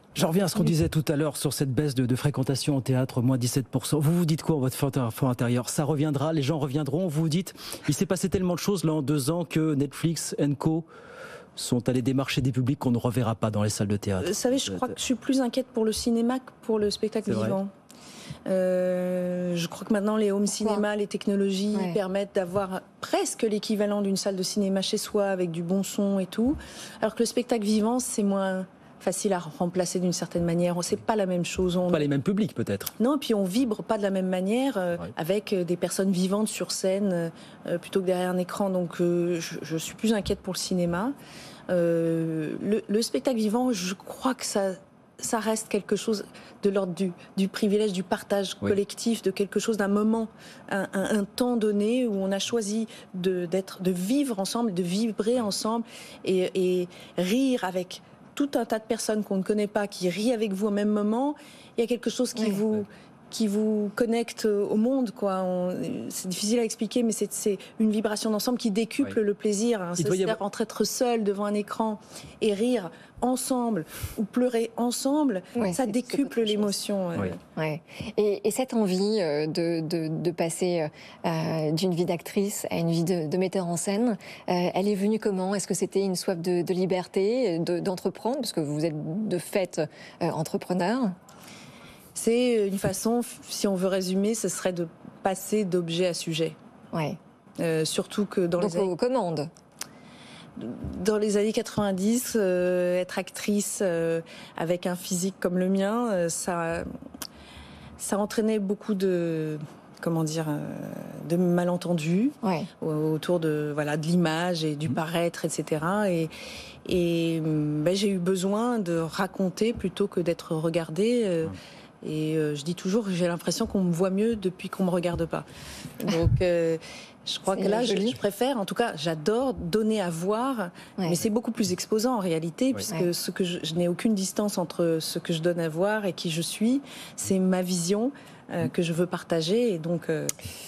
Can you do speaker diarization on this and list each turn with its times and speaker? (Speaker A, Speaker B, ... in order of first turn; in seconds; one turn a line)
Speaker A: 0.1-10.8
Speaker A: 11.6-14.9
Speaker B: 14.2-17.7
Speaker A: 17.2-17.6
Speaker B: 18.4-32.1
Speaker C: 20.5-20.8
Speaker A: 31.9-32.9
Speaker B: 33.0-41.1
Speaker B: 41.7-77.4
Speaker C: 62.3-62.6
Speaker A: 70.0-70.4
Speaker C: 75.5-76.7
Speaker C: 77.5-91.1
Speaker B: 92.1-96.5
Speaker C: 96.9-97.2
Speaker B: 97.6-98.9
Speaker C: 98.6-99.5
Speaker B: 100.6-106.9
Speaker B: 108.0-116.3
Speaker C: 112.4-112.7
Speaker B: 116.8-125.4
Speaker B: 126.0-140.3
Speaker C: 127.5-128.2